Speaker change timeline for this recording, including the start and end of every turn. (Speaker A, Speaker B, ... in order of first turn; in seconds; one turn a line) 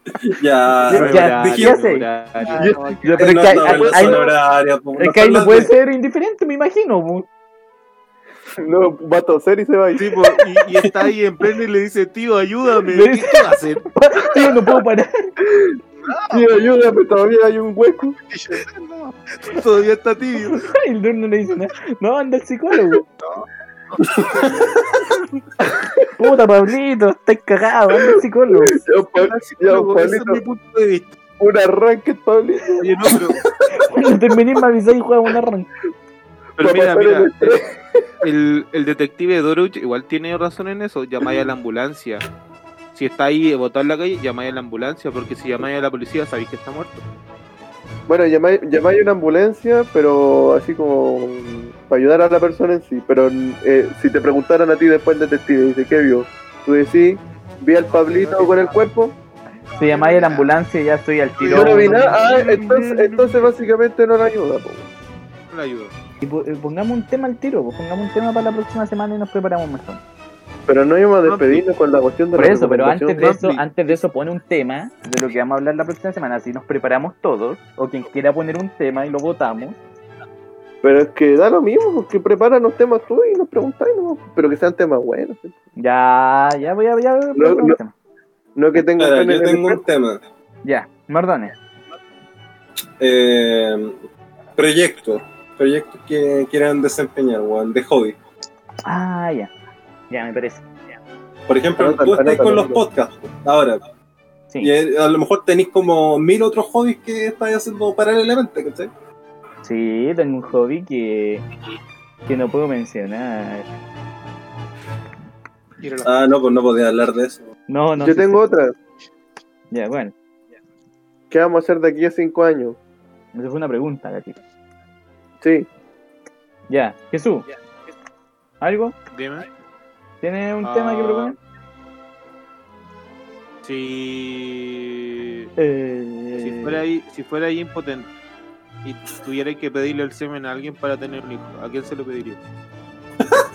Speaker A: 0.1-1.8
Speaker B: 0.8-2.7
Speaker C: 0.9-2.1
Speaker D: 2.4-3.2
Speaker E: 2.6-4.3
Speaker C: 3.0-4.2
Speaker A: 3.2-5.7
Speaker C: 5.0-7.3
Speaker E: 8.6-10.3
Speaker B: 10.0-13.9
Speaker C: 12.9-15.3
Speaker E: 15.4-15.8
Speaker D: 16.0-16.8
Speaker E: 16.3-18.2
Speaker D: 18.2-19.6
Speaker B: 19.5-20.6
Speaker C: 20.6-23.0
Speaker D: 23.1-24.6
Speaker A: 24.1-24.6
Speaker E: 25.6-26.1
Speaker C: 26.2-28.8
Speaker E: 28.1-30.4
Speaker B: 29.1-31.1
Speaker E: 31.4-33.5
Speaker B: 32.8-33.4
Speaker C: 33.7-35.7
Speaker B: 36.6-37.7
Speaker E: 36.6-38.0
Speaker B: 38.2-42.2
Speaker B: 43.0-47.0
Speaker E: 48.1-59.1
Speaker D: 58.0-58.8
Speaker D: 59.7-60.5
Speaker C: 59.8-62.2
Speaker D: 61.4-63.5
Speaker E: 61.5-64.9
Speaker B: 65.5-65.9
Speaker C: 66.2-70.0
Speaker E: 70.7-73.3
Speaker B: 71.2-71.6
Speaker C: 72.3-79.8
Speaker B: 73.2-74.0
Speaker E: 80.8-85.6
Speaker C: 85.8-88.0
Speaker E: 87.4-87.8
Speaker E: 88.5-89.8
Speaker A: 88.8-90.2
Speaker C: 90.6-91.5
Speaker A: 93.0-94.0
Speaker A: 94.6-98.2
Speaker C: 98.8-99.5
Speaker C: 100.1-100.7
Speaker A: 101.5-103.8
Speaker E: 101.8-102.8
Speaker A: 104.6-108.9
Speaker C: 109.6-111.5
Speaker C: 112.3-113.7
Speaker D: 115.8-116.2
Speaker A: 116.0-117.5
Speaker C: 117.7-118.5
Speaker E: 118.0-118.8
Speaker C: 119.7-120.1
Speaker E: 121.3-122.8
Speaker C: 123.3-124.4
Speaker E: 125.4-125.7
Speaker C: 126.7-127.5
Speaker C: 128.6-128.9
Speaker B: 129.1-129.5
Speaker C: 130.2-131.4
Speaker B: 130.6-131.3
Speaker B: 133.6-135.5
Speaker C: 135.6-136.8
Speaker B: 136.4-138.1
Speaker B: 138.8-142.4